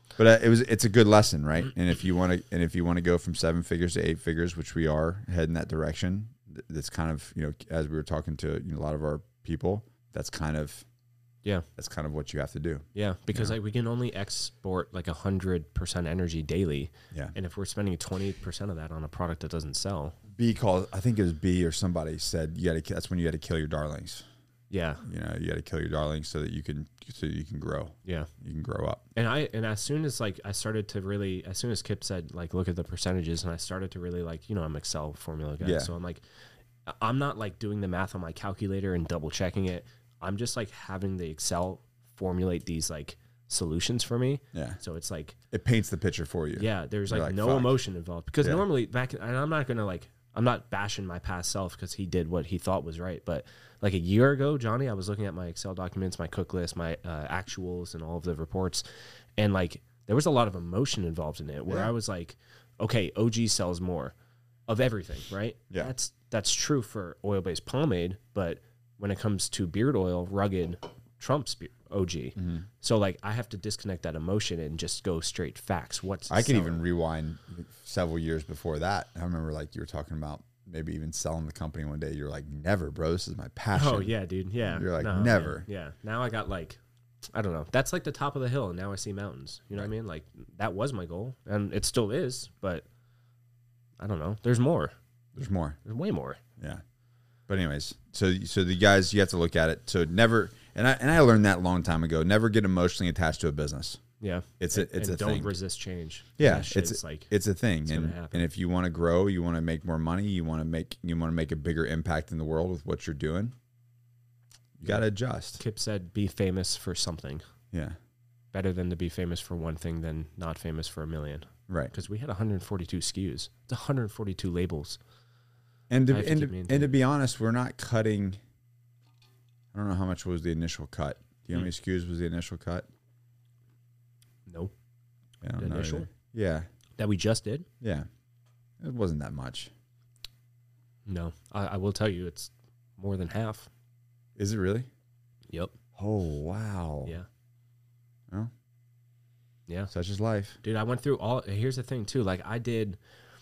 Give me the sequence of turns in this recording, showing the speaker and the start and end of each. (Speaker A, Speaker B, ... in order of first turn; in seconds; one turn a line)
Speaker A: 0.2-10.8
Speaker A: 11.8-13.6
Speaker B: 12.9-20.2
Speaker A: 20.3-24.2
Speaker B: 24.7-25.0
Speaker A: 25.0-29.1
Speaker B: 29.1-36.2
Speaker A: 35.6-35.9
Speaker B: 36.9-45.4
Speaker A: 44.5-44.8
Speaker A: 45.5-47.8
Speaker B: 46.5-58.9
Speaker B: 59.4-64.2
Speaker B: 64.7-76.8
Speaker A: 72.4-72.7
Speaker A: 76.3-85.7
Speaker B: 83.7-86.8
Speaker B: 87.3-92.8
Speaker B: 94.0-94.9
Speaker A: 95.3-95.8
Speaker B: 95.8-96.4
Speaker A: 97.5-104.0
Speaker B: 104.2-107.3
Speaker A: 104.6-105.5
Speaker A: 106.4-113.5
Speaker B: 107.8-108.5
Speaker A: 114.8-115.6
Speaker B: 115.6-117.4
Speaker A: 117.7-118.0
Speaker B: 118.5-125.0
Speaker A: 125.9-128.4
Speaker B: 126.1-126.9
Speaker A: 129.7-132.9
Speaker B: 134.5-134.7
Speaker A: 135.4-136.7
Speaker B: 135.6-136.1
Speaker B: 137.0-137.7
Speaker A: 137.8-138.1
Speaker A: 138.8-139.7
Speaker B: 141.1-143.7
Speaker A: 144.4-144.9
Speaker B: 145.5-145.8
Speaker A: 146.0-147.2
Speaker A: 149.9-150.6
Speaker B: 150.6-153.0